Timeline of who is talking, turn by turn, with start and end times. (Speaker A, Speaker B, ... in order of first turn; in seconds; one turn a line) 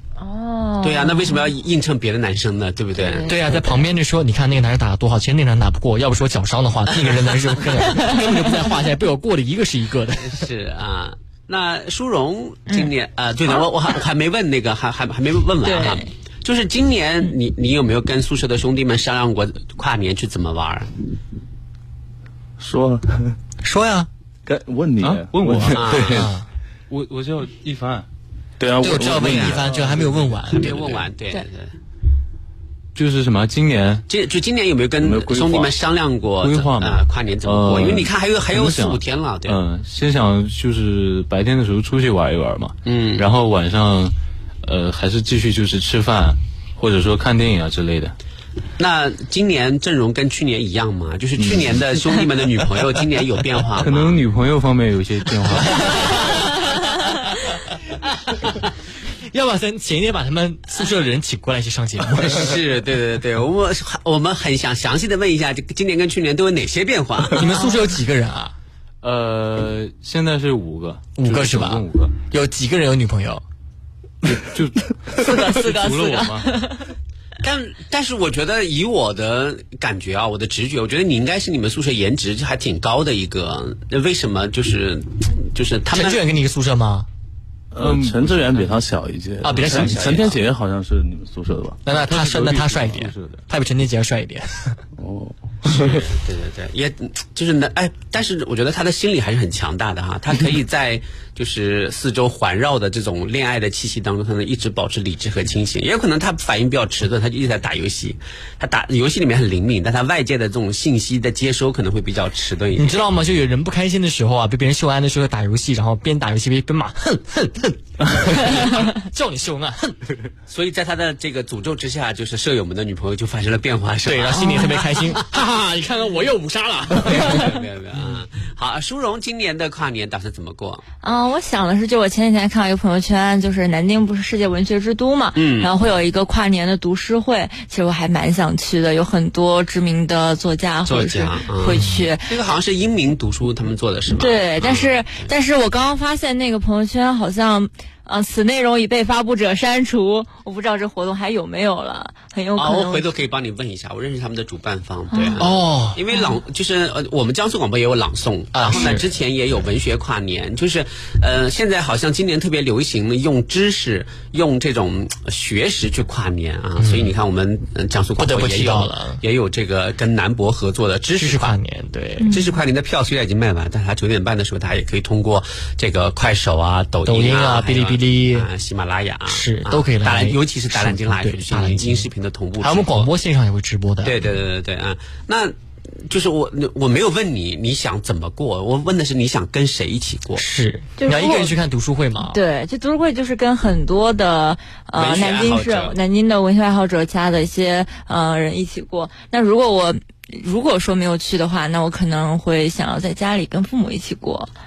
Speaker A: 0.2-1.5
Speaker B: 0.8-3.4
Speaker A: 3.0-3.6
Speaker C: 3.2-10.4
Speaker B: 6.9-7.8
Speaker B: 10.3-20.9
Speaker A: 15.6-16.1
Speaker D: 22.6-23.3
Speaker C: 23.6-24.1
Speaker D: 24.4-26.3
Speaker E: 25.0-26.0
Speaker B: 25.8-26.2
Speaker C: 26.1-26.4
Speaker E: 26.9-28.1
Speaker D: 28.6-30.4
Speaker C: 28.8-31.0
Speaker B: 29.0-29.6
Speaker B: 30.6-31.7
Speaker E: 32.9-34.0
Speaker B: 34.1-39.6
Speaker D: 35.0-35.7
Speaker E: 36.4-48.1
Speaker B: 42.9-43.3
Speaker B: 48.8-54.2
Speaker E: 51.4-51.8
Speaker E: 53.8-55.9
Speaker C: 59.3-62.5
Speaker B: 62.3-67.6
Speaker C: 67.3-68.5
Speaker E: 69.0-72.1
Speaker C: 71.2-73.4
Speaker E: 74.2-76.5
Speaker B: 75.2-76.3
Speaker B: 77.4-86.2
Speaker C: 85.9-87.1
Speaker D: 87.7-91.8
Speaker E: 87.8-88.7
Speaker C: 89.4-90.3
Speaker B: 89.5-90.4
Speaker C: 91.8-94.8
Speaker E: 91.9-93.4
Speaker D: 95.0-96.0
Speaker B: 95.7-113.0
Speaker C: 112.8-119.9
Speaker B: 120.5-125.2
Speaker C: 124.0-127.5
Speaker A: 124.3-124.7
Speaker B: 127.0-130.8
Speaker A: 131.0-142.3
Speaker B: 135.3-135.7
Speaker B: 140.8-145.3
Speaker C: 141.6-141.9
Speaker A: 144.2-153.1
Speaker B: 152.6-171.5
Speaker A: 155.1-155.4
Speaker C: 155.4-156.0
Speaker C: 158.5-159.1
Speaker C: 166.8-167.1
Speaker C: 168.2-169.2
Speaker C: 171.2-172.3
Speaker A: 172.2-172.6
Speaker B: 172.3-183.1
Speaker C: 177.0-178.5
Speaker C: 179.3-184.3
Speaker B: 184.0-185.5
Speaker B: 186.1-190.4
Speaker C: 190.4-192.4
Speaker A: 191.0-191.5
Speaker A: 192.3-204.5
Speaker B: 194.9-196.0